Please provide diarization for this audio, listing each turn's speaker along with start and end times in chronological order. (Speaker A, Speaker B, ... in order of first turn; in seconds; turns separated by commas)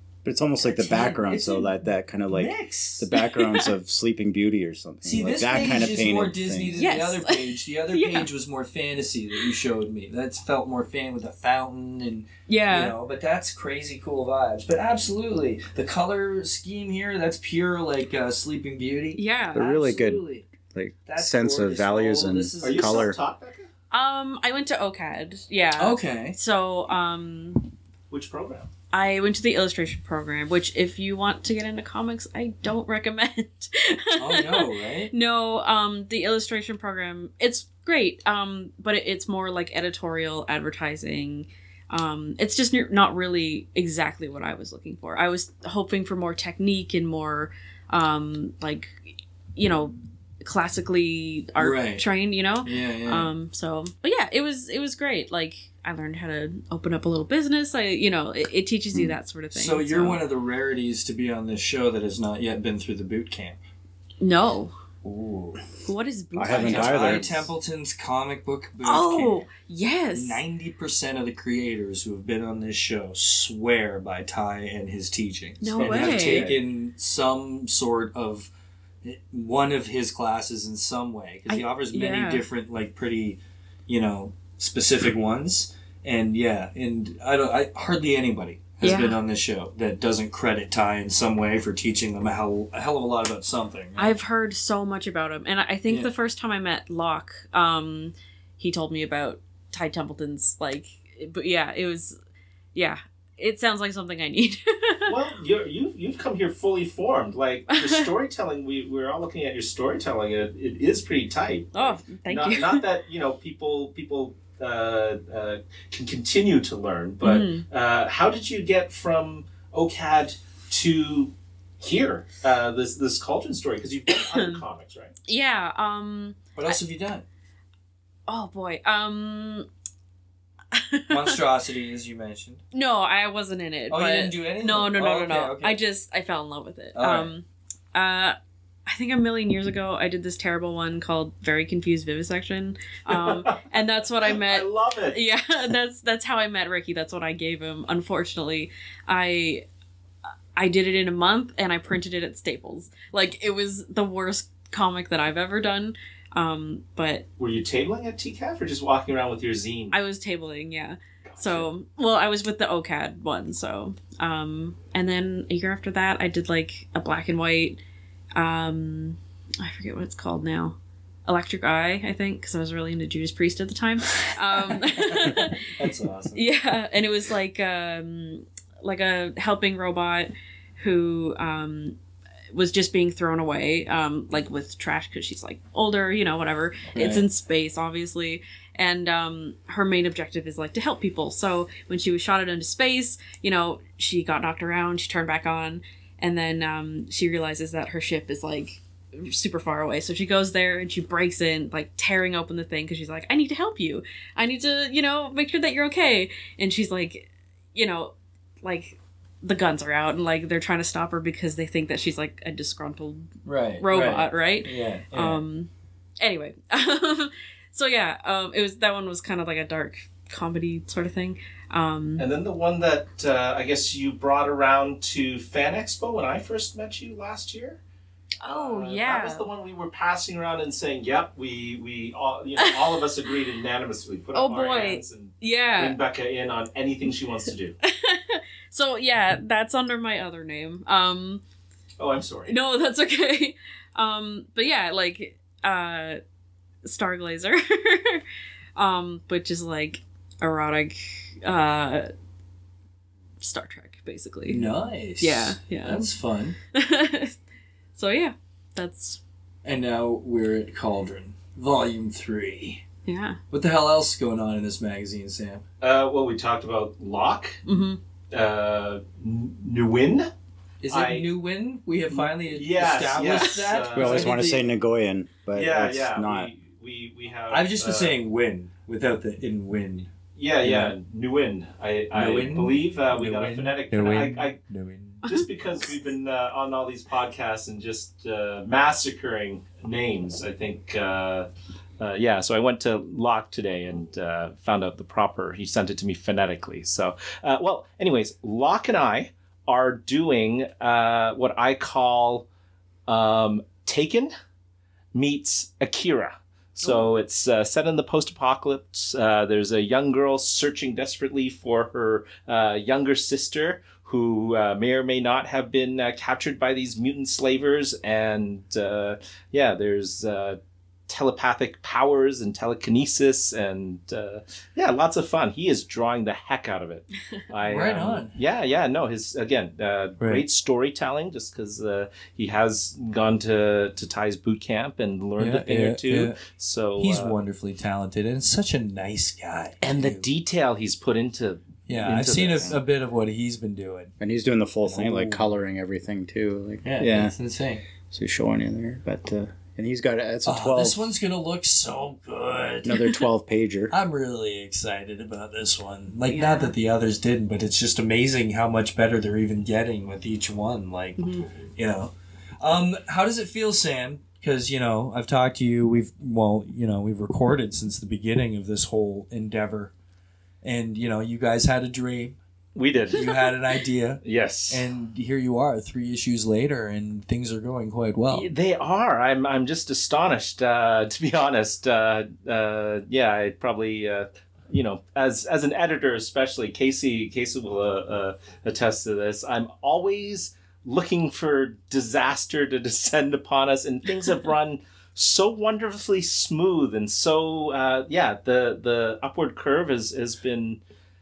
Speaker A: 0.2-6.8, Speaker B: 0.6-1.6, Speaker C: 0.8-1.7, Speaker C: 2.3-3.1, Speaker B: 3.1-3.7, Speaker C: 5.0-20.4, Speaker B: 6.8-8.3, Speaker B: 12.5-12.9, Speaker B: 19.2-20.1, Speaker A: 19.6-23.2, Speaker C: 21.1-23.1, Speaker D: 22.6-23.7, Speaker B: 23.9-27.7, Speaker C: 25.8-26.4, Speaker D: 28.1-28.7, Speaker B: 28.9-49.0, Speaker C: 34.2-35.1, Speaker B: 49.6-60.2, Speaker C: 51.6-52.1, Speaker C: 52.6-53.3, Speaker C: 59.5-63.6, Speaker B: 64.2-64.8, Speaker C: 65.0-65.6, Speaker B: 65.9-67.3, Speaker A: 66.3-67.5, Speaker C: 66.5-69.4, Speaker B: 68.8-70.4, Speaker C: 70.2-78.5, Speaker B: 75.6-76.5, Speaker D: 75.8-76.5, Speaker A: 75.8-76.5, Speaker C: 79.0-94.2, Speaker B: 81.5-82.5, Speaker B: 88.8-89.2, Speaker B: 94.0-102.2, Speaker B: 102.8-105.2, Speaker D: 105.1-125.1, Speaker B: 107.7-108.1, Speaker B: 111.7-112.9, Speaker B: 117.2-117.6, Speaker B: 124.1-124.6, Speaker B: 125.3-126.8, Speaker C: 126.6-127.2, Speaker B: 128.3-129.7, Speaker B: 130.7-131.4, Speaker C: 131.1-132.6, Speaker B: 132.7-138.4, Speaker C: 133.9-135.8, Speaker C: 136.9-137.3, Speaker B: 138.9-149.6, Speaker D: 143.1-143.7, Speaker D: 144.2-145.2, Speaker B: 150.6-157.2, Speaker D: 157.4-159.9, Speaker B: 159.9-167.8, Speaker D: 161.2-161.7, Speaker B: 168.3-175.7, Speaker C: 174.7-176.4, Speaker B: 176.3-182.0, Speaker B: 182.5-222.3, Speaker C: 186.9-187.2, Speaker C: 213.4-215.4, Speaker D: 222.2-227.8, Speaker B: 228.4-229.5, Speaker D: 228.4-237.8, Speaker B: 232.6-233.1, Speaker B: 234.3-236.0, Speaker B: 237.8-241.4, Speaker D: 242.0-242.6, Speaker B: 242.5-246.2, Speaker B: 246.8-248.2, Speaker B: 248.8-252.1, Speaker B: 253.4-254.7, Speaker C: 254.5-256.6, Speaker B: 255.2-256.1, Speaker B: 256.7-257.4, Speaker B: 258.0-259.2, Speaker C: 259.6-262.8, Speaker B: 263.1-263.4, Speaker C: 263.5-265.6, Speaker D: 265.8-267.6, Speaker B: 267.7-268.0, Speaker D: 268.3-270.3, Speaker C: 270.8-274.7, Speaker D: 270.9-271.3, Speaker D: 272.1-274.4, Speaker A: 273.9-276.5, Speaker D: 275.5-278.2, Speaker C: 277.5-280.1, Speaker D: 280.4-284.6, Speaker C: 280.6-280.9, Speaker C: 282.1-285.2, Speaker D: 285.2-291.5, Speaker D: 292.0-302.5, Speaker D: 303.1-304.3, Speaker D: 305.1-337.4, Speaker B: 306.8-307.1, Speaker C: 327.6-328.4, Speaker C: 330.2-330.4, Speaker C: 335.4-336.4, Speaker C: 337.0-340.3, Speaker D: 339.8-342.8, Speaker C: 341.9-344.1, Speaker A: 344.2-347.3, Speaker C: 344.9-345.5, Speaker C: 346.8-347.8, Speaker A: 348.1-351.2, Speaker C: 350.4-353.2, Speaker A: 352.8-353.9, Speaker C: 353.9-361.2, Speaker B: 356.3-356.7, Speaker B: 361.2-361.5, Speaker C: 361.8-369.9, Speaker C: 370.6-372.4, Speaker D: 372.8-373.3, Speaker C: 373.1-378.5, Speaker D: 374.2-374.9, Speaker D: 378.3-400.8